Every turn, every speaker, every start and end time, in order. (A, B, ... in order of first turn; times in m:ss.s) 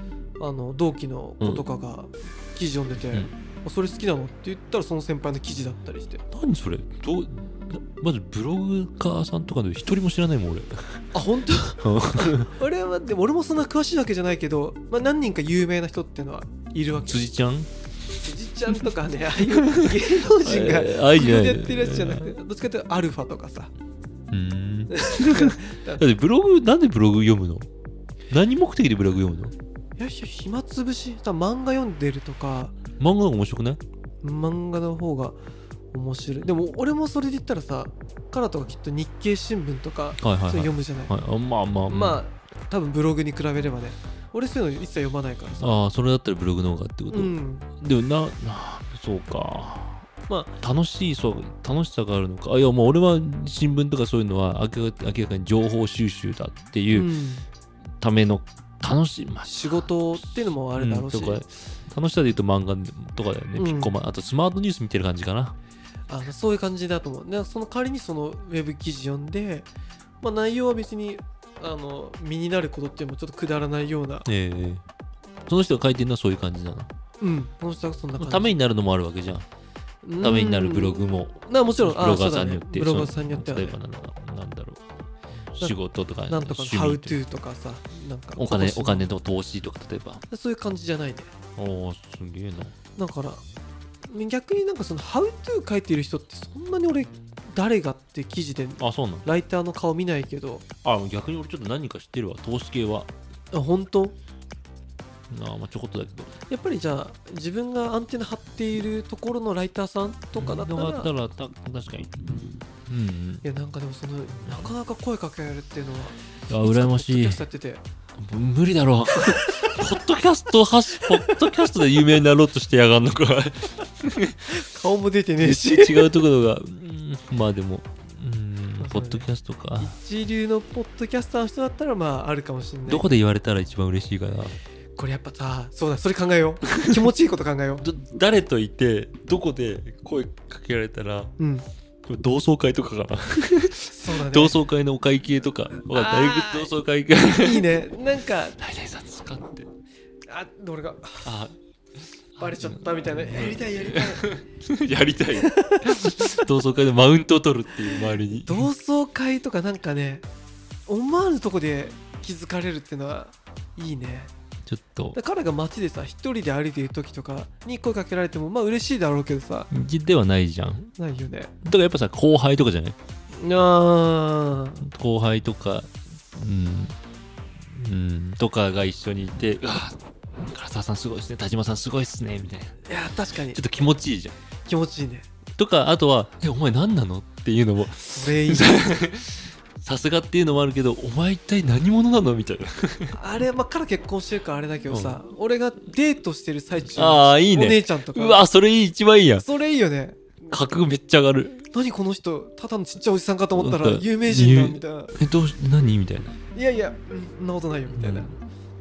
0:00.4-0:06.2 A
0:06.3-0:11.1 B
0:11.1-0:17.2 A
0:11.8-0:12.5 B
0:17.0-0:17.7 B
0:18.2-0:23.7 A
0:19.5-0:22.3 B
0:24.3-0:27.7 B
0:24.9-0:26.0 A
0:28.3-0:29.5 B
0:30.0-0:32.7 A
0:33.0-0:33.8 B
0:34.2-0:35.4 A
0:35.9-0:41.1 A
0:40.2-0:42.2 B
0:41.9-0:45.7 A
0:45.6-0:50.0 B
0:47.1-0:47.7 A
0:50.3-0:50.6 A
0:50.6-0:57.1 B
0:56.9-0:57.4 A
0:58.0-1:05.5 B
0:59.4-1:01.4 A
1:03.6-1:03.9 A
1:06.1-1:09.7 A
1:10.2-1:14.3 A
1:14.2-1:14.8 B
1:15.5-1:16.9 B
1:17.2-1:18.6 A
1:18.2-1:19.4 B
1:20.0-1:23.8 A
1:20.2-1:24.8 B
1:25.5-1:27.2 B
1:26.3-1:29.1 A
1:28.4-1:30.2 B
1:30.3-1:31.3 A
1:31.6-1:32.7 B
1:33.0-1:33.4 A
1:34.1-1:40.6 A
1:38.8-1:39.2 B
1:40.8-1:43.1 B
1:43.5-1:44.1 A
1:45.3-1:46.3 B
1:46.5-1:51.1 A
1:50.3-1:53.4 B
1:53.4-1:57.8 A
1:54.4-1:54.7 B
1:56.5-1:57.4 B
1:58.2-2:04.6 B
2:04.5-2:06.1 A
2:05.4-2:09.9 B
2:08.8-2:09.2 A
2:09.8-2:13.0 A
2:12.9-2:14.6 B
2:15.0-2:17.8 A
2:17.8-2:21.3 B
2:21.4-2:21.6 A
2:22.0-2:27.7 B
2:23.9-2:24.6 A
2:25.9-2:26.7 A
2:27.3-2:28.6 A
2:28.6-2:29.7 B
2:30.3-2:31.3 A
2:31.2-2:31.6 B
2:32.3-2:38.7 B
2:32.4-2:34.3 A
2:35.4-2:36.1 A
2:38.3-2:40.2 A
2:40.9-2:44.3 A
2:44.7-2:45.2 B
2:45.1-2:49.7 A
2:49.7-2:50.9 B
2:51.0-2:51.5 A
2:51.6-2:53.0 B
2:53.4-2:54.8 A
2:54.8-2:57.0 B
2:57.6-3:02.8 B
3:02.8-3:03.6 A
3:03.5-3:04.3 B
3:04.7-3:05.2 A
3:05.6-3:13.2 B
3:08.1-3:08.9 A
3:13.1-3:18.4 A
3:14.9-3:15.2 B
3:16.9-3:19.4 B
3:19.4-3:20.6 A
3:20.5-3:21.6 B
3:21.7-3:25.1 A
3:23.6-3:26.4 B
3:26.5-3:28.3 A
3:27.9-3:28.3 B